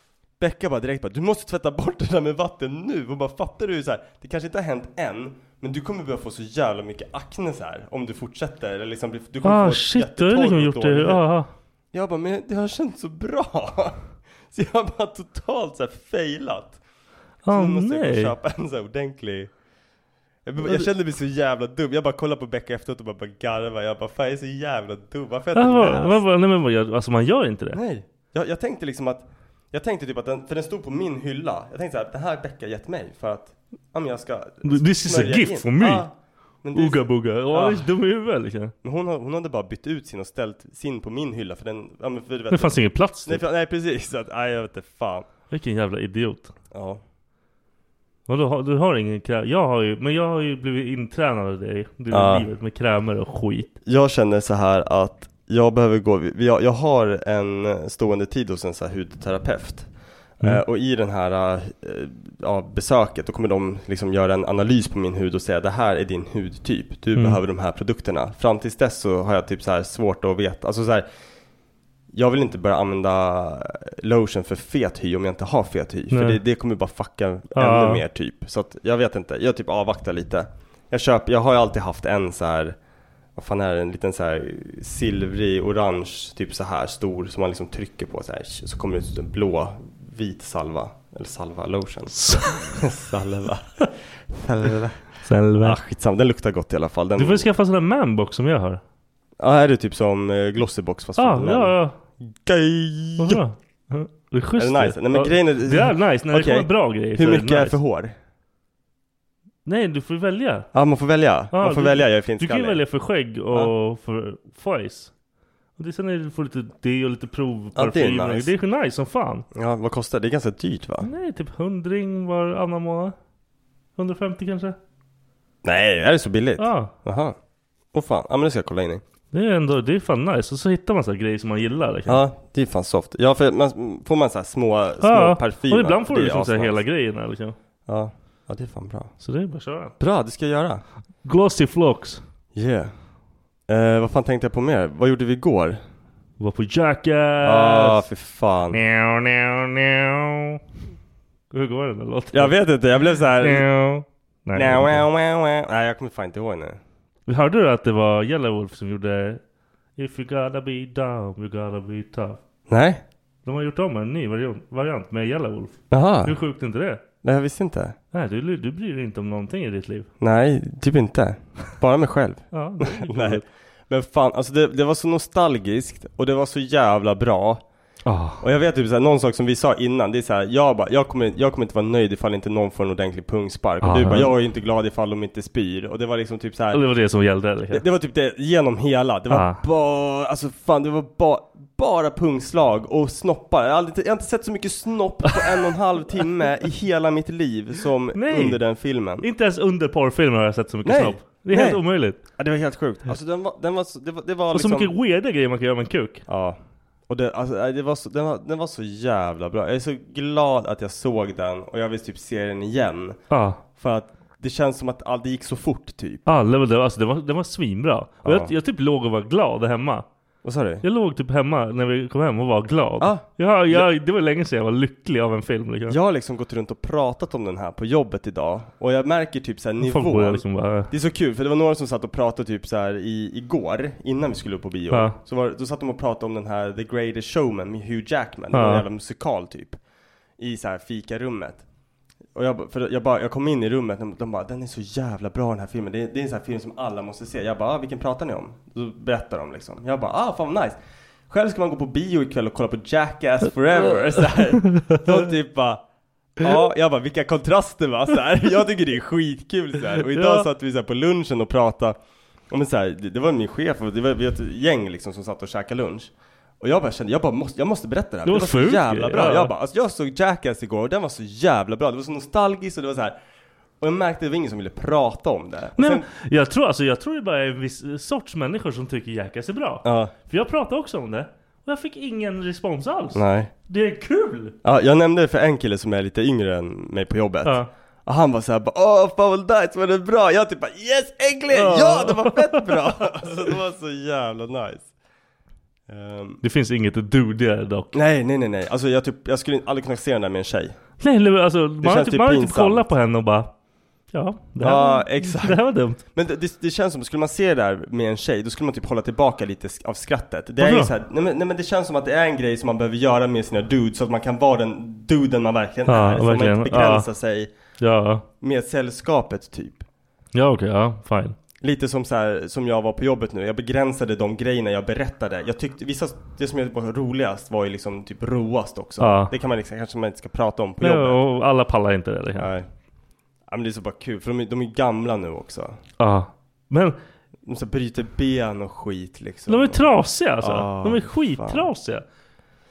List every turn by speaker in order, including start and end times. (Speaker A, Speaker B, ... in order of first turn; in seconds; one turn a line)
Speaker A: 0.4-11.2
Speaker B: 9.4-11.5
Speaker A: 11.9-14.0
Speaker A: 14.5-16.8
Speaker B: 17.4-18.4
Speaker A: 17.5-19.5
Speaker A: 20.5-26.2
Speaker B: 20.6-20.9
Speaker B: 25.6-27.8
Speaker A: 27.7-36.1
Speaker B: 34.6-36.1
Speaker A: 36.6-37.9
Speaker B: 36.7-38.7
Speaker A: 38.8-45.3
Speaker B: 42.5-43.4
Speaker B: 45.5-46.5
Speaker A: 46.7-47.0
Speaker B: 48.3-53.7
Speaker A: 52.1-52.5
Speaker A: 53.9-59.9
Speaker A: 60.4-71.1
Speaker A: 72.1-82.8
Speaker B: 76.1-76.4
Speaker B: 77.5-78.0
Speaker A: 83.4-93.8
Speaker B: 92.2-92.8
Speaker A: 94.3-95.0
Speaker B: 95.2-95.8
Speaker A: 95.6-97.5
Speaker B: 97.2-98.8
Speaker A: 99.4-101.7
Speaker B: 101.2-102.0
Speaker A: 102.4-103.4
Speaker B: 103.2-107.8
Speaker A: 104.6-108.2
Speaker B: 109.7-110.7
Speaker A: 110.7-112.8
Speaker B: 111.5-115.1
Speaker B: 115.8-119.5
Speaker A: 117.8-118.5
Speaker A: 119.5-121.1
Speaker B: 121.0-123.2
Speaker B: 124.0-124.8
Speaker A: 125.6-127.4
Speaker B: 126.6-126.9
Speaker A: 127.9-129.0
Speaker B: 129.3-132.2
Speaker A: 132.1-136.8
Speaker B: 135.0-137.6
Speaker A: 137.9-139.1
Speaker B: 139.2-139.9
Speaker A: 140.0-140.8
Speaker B: 141.2-142.2
Speaker A: 142.6-142.9
Speaker A: 143.7-145.8
Speaker B: 146.4-148.1
Speaker A: 147.4-148.8
Speaker B: 148.7-150.6
Speaker B: 151.5-155.1
Speaker A: 152.3-153.7
Speaker A: 154.6-156.8
Speaker B: 157.3-159.4
Speaker B: 160.0-162.4
Speaker A: 162.7-163.0
Speaker B: 163.4-167.0
Speaker A: 165.9-166.3
Speaker A: 167.2-168.0
Speaker B: 168.1-170.1
Speaker A: 170.2-177.6
Speaker B: 172.5-173.4
Speaker B: 178.1-178.4
Speaker A: 178.4-186.8
Speaker B: 183.8-184.3
Speaker B: 186.7-187.8
Speaker A: 187.7-199.3
Speaker B: 189.3-189.6
Speaker B: 195.3-195.6
Speaker B: 198.1-198.6
Speaker B: 199.2-202.2
Speaker A: 200.8-204.9
Speaker B: 204.5-206.2
Speaker A: 206.3-213.2
Speaker B: 213.3-213.6
Speaker A: 213.8-216.3
Speaker B: 216.3-220.1
Speaker A: 218.2-218.5
Speaker A: 220.4-220.8
Speaker B: 220.8-226.0
Speaker A: 223.0-223.9
Speaker A: 225.9-239.8
Speaker B: 229.8-230.9
Speaker B: 234.9-235.2
Speaker B: 238.5-238.8
Speaker A: 240.4-241.6
Speaker A: 242.3-250.8
Speaker A: 251.3-255.8
Speaker B: 254.7-255.0
Speaker A: 256.4-262.0
Speaker B: 260.1-260.5
Speaker A: 262.5-273.2
Speaker B: 268.2-269.5
Speaker A: 273.8-276.1
Speaker B: 275.8-284.6
Speaker A: 279.8-280.1
Speaker A: 283.1-283.5
Speaker A: 284.6-294.9
Speaker B: 287.4-287.7
Speaker B: 291.5-292.9
Speaker A: 295.9-296.4
Speaker B: 296.4-297.9
Speaker A: 297.9-300.8
Speaker B: 301.0-303.5
Speaker A: 301.8-302.9
Speaker B: 304.1-306.0
Speaker A: 304.6-305.6
Speaker A: 306.1-317.5
Speaker B: 310.6-310.9
Speaker B: 315.9-317.1
Speaker B: 317.8-318.2
Speaker A: 318.4-319.8
Speaker B: 320.3-321.4
Speaker A: 321.6-331.2
Speaker B: 329.0-329.3
Speaker B: 330.8-332.5
Speaker A: 332.4-332.7
Speaker A: 333.5-335.8
Speaker B: 336.0-337.0
Speaker A: 337.5-339.9
Speaker B: 339.5-342.0
Speaker A: 340.4-341.7